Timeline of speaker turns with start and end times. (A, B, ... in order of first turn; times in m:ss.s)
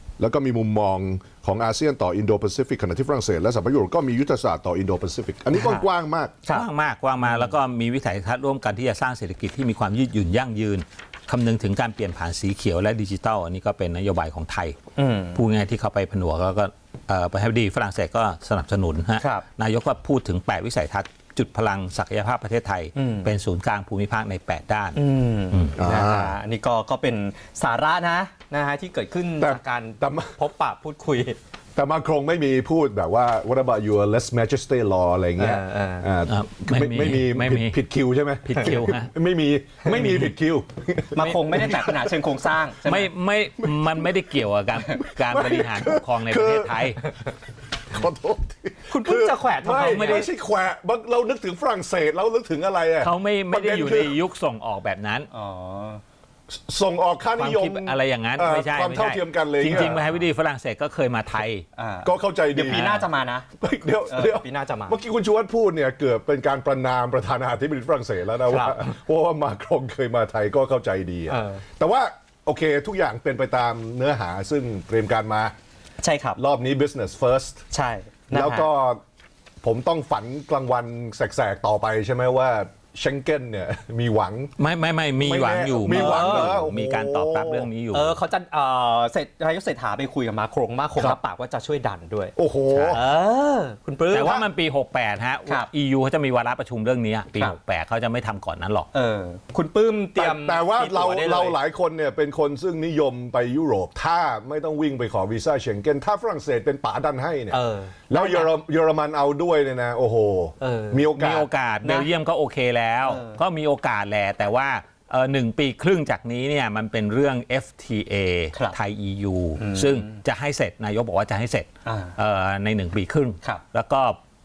0:00.2-0:06.4 A
0:05.5-0:05.8 B
0:06.5-0:14.8 C
0:07.2-0:07.5 B
0:15.0-0:15.4 B
0:15.3-0:25.0 C
0:19.2-0:19.4 B
0:23.0-0:23.3 B
0:24.9-0:31.4 B
0:25.8-0:26.4 A
0:29.4-0:30.4 A
0:31.8-0:42.1 A
0:35.4-0:36.1 B
0:36.2-0:37.8 C
0:38.4-0:39.1 C
0:39.9-0:40.3 C
0:41.1-0:43.1 B
0:42.8-0:47.0 C
0:43.6-0:44.0 A
0:44.9-0:47.0 A
0:47.9-0:54.2 A
0:48.9-0:50.2 B
0:49.7-0:50.3 C
0:53.0-0:55.3 C
0:55.3-0:56.0 B
0:56.5-1:00.0 A
0:57.4-1:01.6 C
0:59.7-1:00.2 B
1:01.8-1:03.5 B
1:02.0-1:03.0 A
1:03.6-1:15.5 A
1:04.1-1:05.0 B
1:08.5-1:08.9 B
1:11.3-1:11.6 B
1:16.0-1:16.4 B
1:16.4-1:17.6 A
1:17.7-1:18.7 B
1:18.3-1:19.0 A
1:19.6-1:24.5 A
1:24.6-1:28.2 C
1:25.2-1:27.7 A
1:25.9-1:26.5 B
1:27.9-1:32.3 B
1:32.4-1:33.0 A
1:32.7-1:33.0 C
1:32.9-1:34.4 B
1:34.1-1:38.9 C
1:38.9-1:41.6 B
1:40.2-1:51.5 A
1:47.5-1:48.5 B
1:50.6-1:51.1 B
1:51.2-2:04.2 C
1:53.0-1:53.4 B
1:59.6-2:00.2 B
2:01.8-2:02.2 B